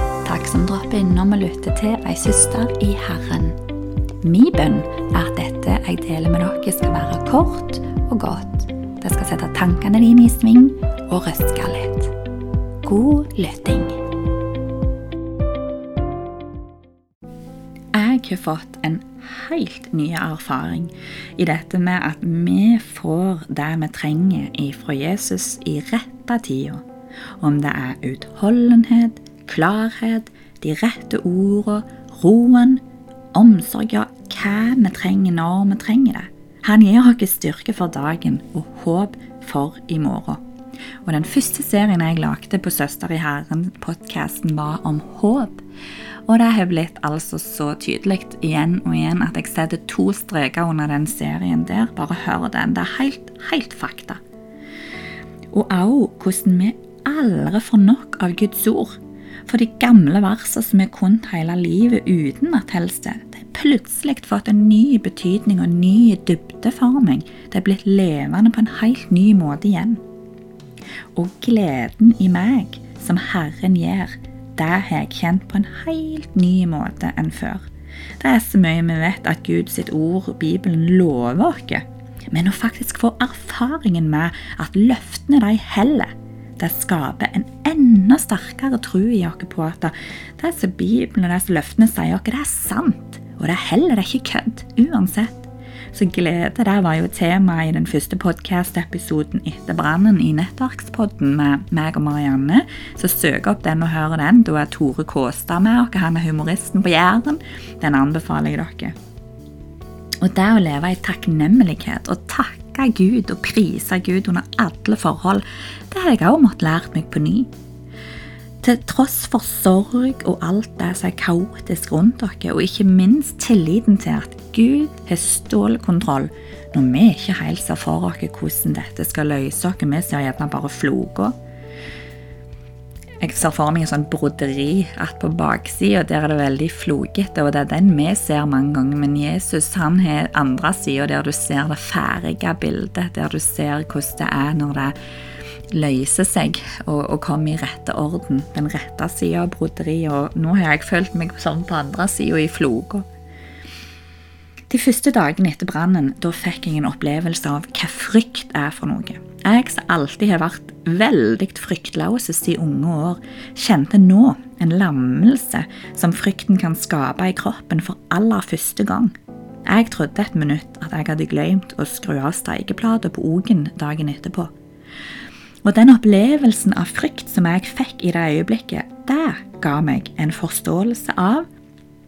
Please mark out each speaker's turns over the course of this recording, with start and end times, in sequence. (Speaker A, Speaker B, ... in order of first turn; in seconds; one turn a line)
Speaker A: 0.2-3.5
Speaker A: 4.2-12.1
Speaker A: 12.8-14.0
Speaker A: 17.9-26.8
Speaker A: 27.4-40.4
Speaker A: 41.0-45.6
Speaker A: 46.3-54.2
Speaker A: 55.5-70.0
Speaker A: 71.1-77.7
Speaker A: 78.2-108.9
Speaker A: 110.2-117.5
Speaker A: 118.6-131.3
Speaker A: 133.2-144.9
Speaker A: 145.7-153.1
Speaker A: 154.7-169.1
Speaker A: 169.7-174.5
Speaker A: 175.6-181.5